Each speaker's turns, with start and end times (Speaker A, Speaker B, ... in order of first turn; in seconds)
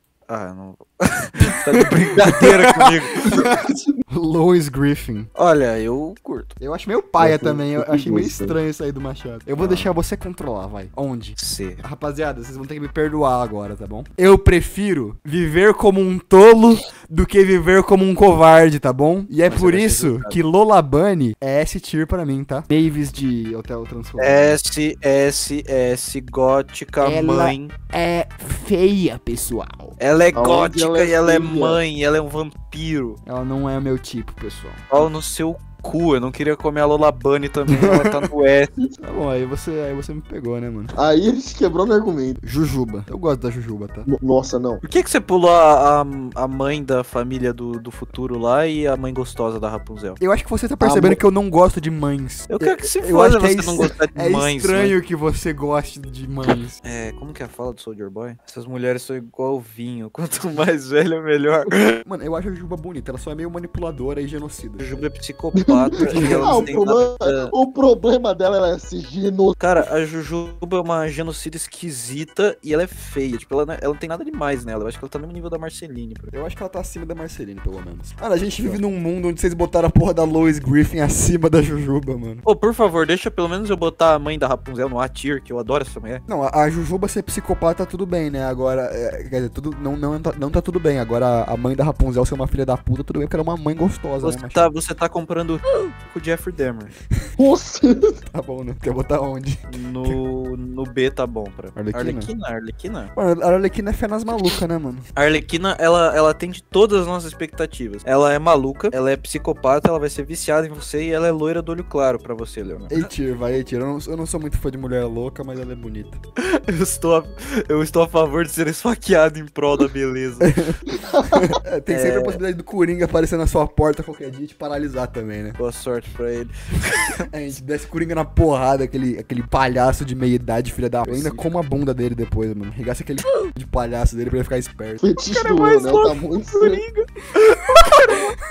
Speaker A: 0.3-3.8, 5.3-6.5, 9.6-9.9, 11.4-11.8, 19.5-20.4, 24.2-27.7, 30.0-33.2, 34.9-38.7, 44.8-50.2, 52.5-54.9, 56.8-62.0, 64.8-67.5, 69.6-76.3, 82.4-86.2, 94.2-96.9, 99.7-103.1, 105.2-113.1, 116.5-120.5, 121.9-122.4, 125.6-127.2, 131.0-131.5, 135.3-138.3
Speaker B: 1.4-1.8, 2.4-3.6, 4.1-5.3, 6.6-24.6, 27.0-29.9, 33.2-35.0, 37.7-38.3, 39.0-40.9, 42.4-44.1, 50.2-56.8, 62.0-64.8, 66.0-66.7, 76.3-82.4, 86.3-94.7, 98.3-100.2, 101.8-102.3, 103.1-105.1, 112.9-116.2, 120.4-125.6, 127.3-135.0
Speaker C: 7.2-8.6, 30.3-31.8, 40.9-42.4, 44.0-44.8, 50.8-51.2, 65.6-69.5, 97.4-98.2, 121.1-121.5, 135.0-136.8